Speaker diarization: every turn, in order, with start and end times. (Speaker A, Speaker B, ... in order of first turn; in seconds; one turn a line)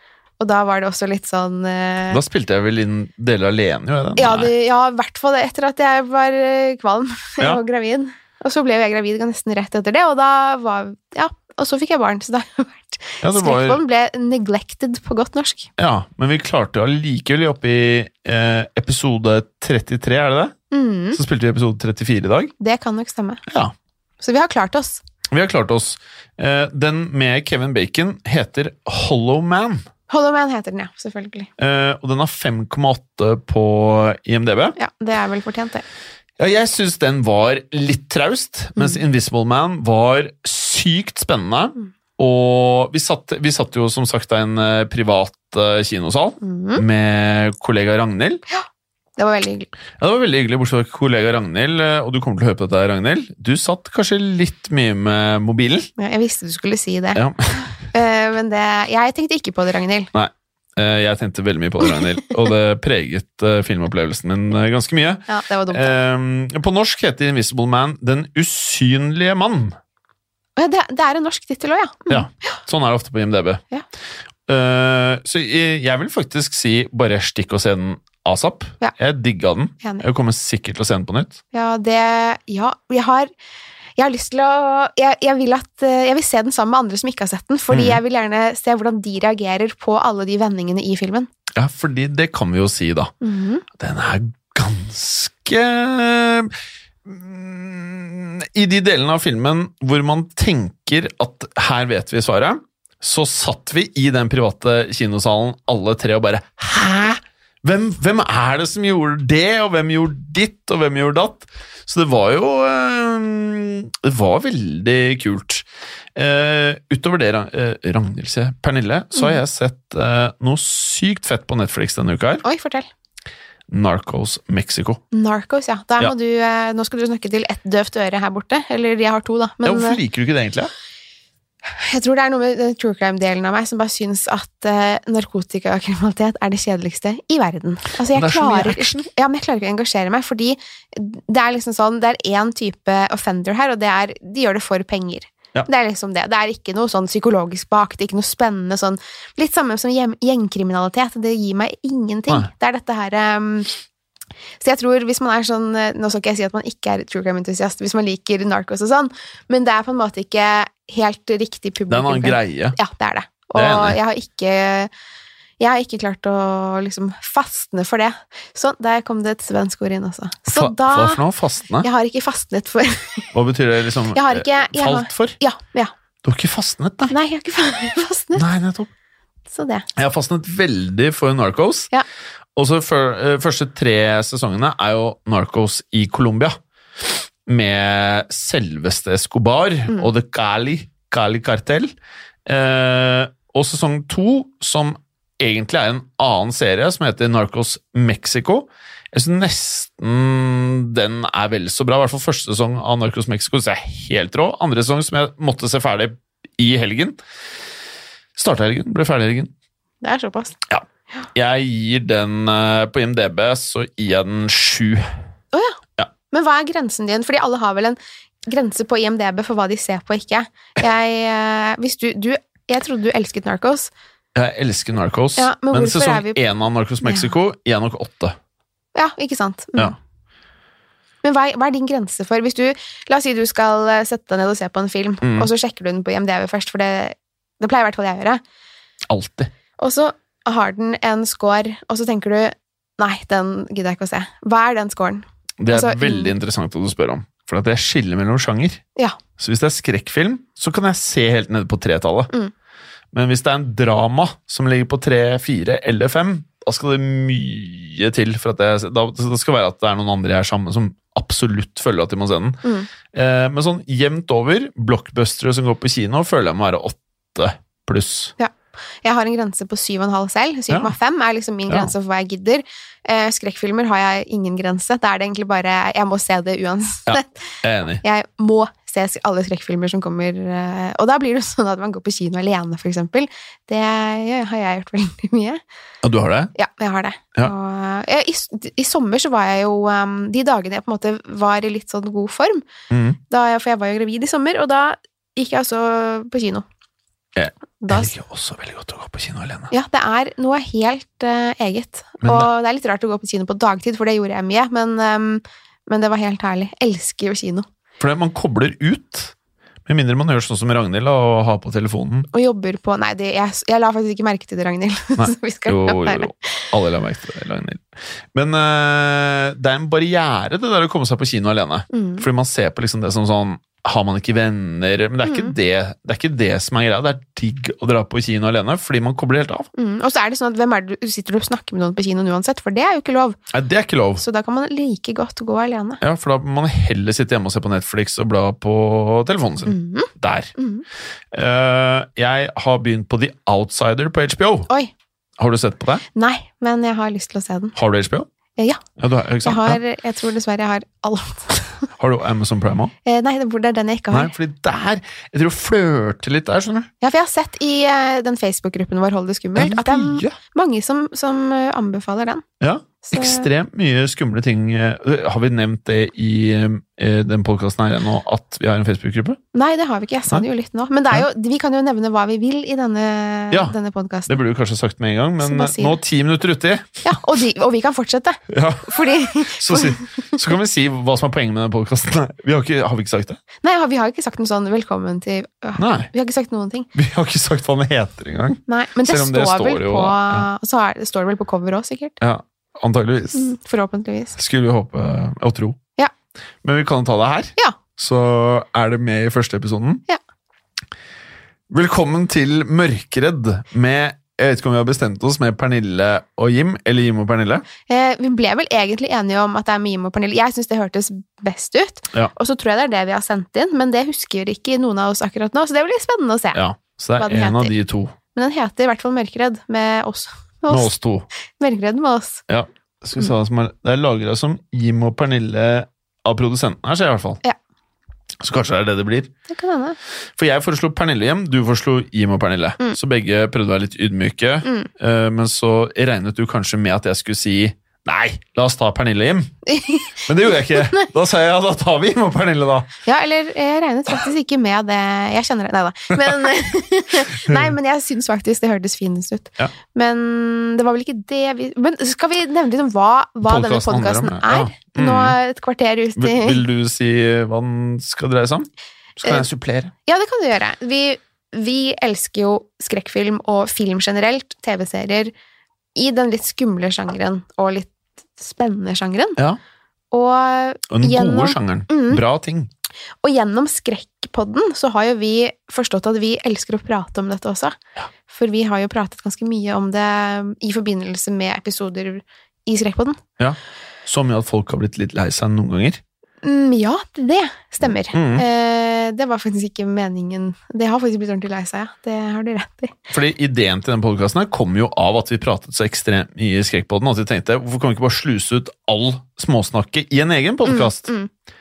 Speaker A: 0.4-2.2
Speaker B: 2.1-4.5
Speaker A: 4.2-15.7
Speaker B: 13.2-13.8
Speaker B: 15.8-20.6
Speaker A: 20.7-21.2
Speaker B: 21.1-22.5
Speaker A: 22.6-23.4
Speaker B: 23.5-23.7
Speaker A: 24.2-25.0
Speaker B: 25.3-29.8
Speaker A: 30.1-31.5
Speaker B: 31.6-34.8
Speaker A: 34.8-35.8
Speaker B: 36.4-48.4
Speaker A: 46.4-46.8
Speaker A: 49.2-49.7
Speaker B: 50.0-55.9
Speaker A: 56.0-57.2
Speaker B: 57.1-57.7
Speaker A: 57.8-60.1
Speaker B: 60.1-69.8
Speaker A: 65.3-65.9
Speaker A: 70.6-72.5
Speaker B: 72.1-73.6
Speaker B: 74.5-81.4
Speaker A: 81.5-83.3
Speaker A: 84.0-91.3
Speaker B: 87.7-88.0
Speaker B: 91.5-93.1
Speaker A: 93.2-93.6
Speaker B: 93.7-96.5
Speaker B: 97.0-122.4
Speaker A: 122.4-122.9
Speaker B: 123.7-125.0
Speaker A: 125.1-130.0
Speaker B: 129.6-130.7
Speaker A: 131.8-153.7
Speaker B: 138.1-139.0
Speaker A: 154.6-164.9
Speaker B: 161.9-162.8
Speaker B: 163.5-164.0
Speaker A: 165.6-171.2
Speaker B: 170.5-171.9
Speaker A: 171.8-173.3
Speaker B: 173.3-175.4
Speaker A: 174.1-175.9
Speaker B: 176.2-177.1
Speaker A: 177.1-178.4
Speaker B: 178.3-178.9
Speaker A: 179.5-179.8
Speaker B: 179.9-181.9
Speaker B: 182.6-186.6
Speaker B: 187.4-191.9
Speaker B: 192.4-207.2
Speaker B: 208.3-209.5
Speaker A: 210.0-210.6
Speaker B: 210.7-215.0
Speaker A: 215.5-223.9
Speaker B: 224.3-228.3
Speaker A: 225.3-226.4
Speaker A: 227.0-227.3
Speaker A: 228.9-229.9
Speaker A: 231.2-238.4
Speaker B: 235.2-235.5
Speaker B: 239.1-239.5
Speaker A: 239.8-246.3
Speaker B: 245.6-248.8
Speaker B: 249.4-252.3
Speaker B: 253.1-262.6
Speaker B: 263.1-268.3
Speaker A: 269.0-285.6
Speaker B: 277.1-278.0
Speaker B: 286.0-286.5
Speaker A: 286.5-292.6
Speaker B: 292.9-293.2
Speaker A: 293.3-296.6
Speaker B: 297.3-299.7
Speaker A: 297.8-298.1
Speaker A: 299.7-307.7
Speaker B: 302.2-302.5
Speaker B: 308.0-309.3
Speaker B: 309.9-312.3
Speaker A: 312.3-316.7
Speaker B: 315.2-329.7
Speaker A: 321.9-322.2
Speaker A: 325.2-325.5
Speaker A: 329.8-333.4
Speaker B: 333.5-334.2
Speaker A: 334.2-336.0
Speaker B: 336.0-340.5
Speaker A: 339.6-340.8
Speaker B: 341.3-344.7
Speaker B: 345.4-346.0
Speaker A: 346.1-347.7
Speaker B: 347.7-348.3
Speaker A: 348.6-348.8
Speaker B: 349.0-349.8
Speaker A: 349.4-351.8
Speaker B: 352.0-352.9
Speaker A: 353.0-354.3
Speaker B: 354.1-356.9
Speaker A: 357.0-362.4
Speaker B: 359.6-360.4
Speaker B: 362.6-369.4
Speaker A: 363.0-363.5
Speaker A: 369.5-374.4
Speaker B: 374.3-377.2
Speaker A: 375.4-376.0
Speaker A: 377.0-380.4
Speaker B: 378.5-383.4
Speaker A: 383.6-386.9
Speaker B: 385.8-386.1
Speaker B: 386.9-390.5
Speaker A: 388.7-392.2
Speaker B: 392.2-393.5
Speaker A: 393.3-394.4
Speaker B: 394.4-395.8
Speaker B: 396.6-400.0
Speaker B: 401.7-407.6
Speaker A: 407.9-416.6
Speaker B: 416.5-418.1
Speaker A: 417.1-417.7
Speaker A: 418.3-420.9
Speaker B: 420.7-421.3
Speaker A: 421.6-422.4
Speaker B: 422.5-427.4
Speaker B: 428.4-429.3
Speaker A: 429.5-430.0
Speaker B: 430.4-439.6
Speaker A: 434.6-434.9
Speaker A: 439.6-441.1
Speaker B: 440.2-442.9
Speaker A: 443.0-456.6
Speaker B: 453.4-455.4
Speaker B: 456.1-458.7
Speaker B: 459.2-459.9
Speaker A: 460.1-465.3
Speaker A: 465.9-469.4
Speaker A: 470.1-472.2
Speaker B: 470.9-472.7
Speaker A: 473.2-483.2
Speaker B: 483.4-486.0
Speaker A: 486.4-493.0
Speaker B: 488.1-488.4
Speaker B: 493.1-501.1
Speaker A: 500.6-501.3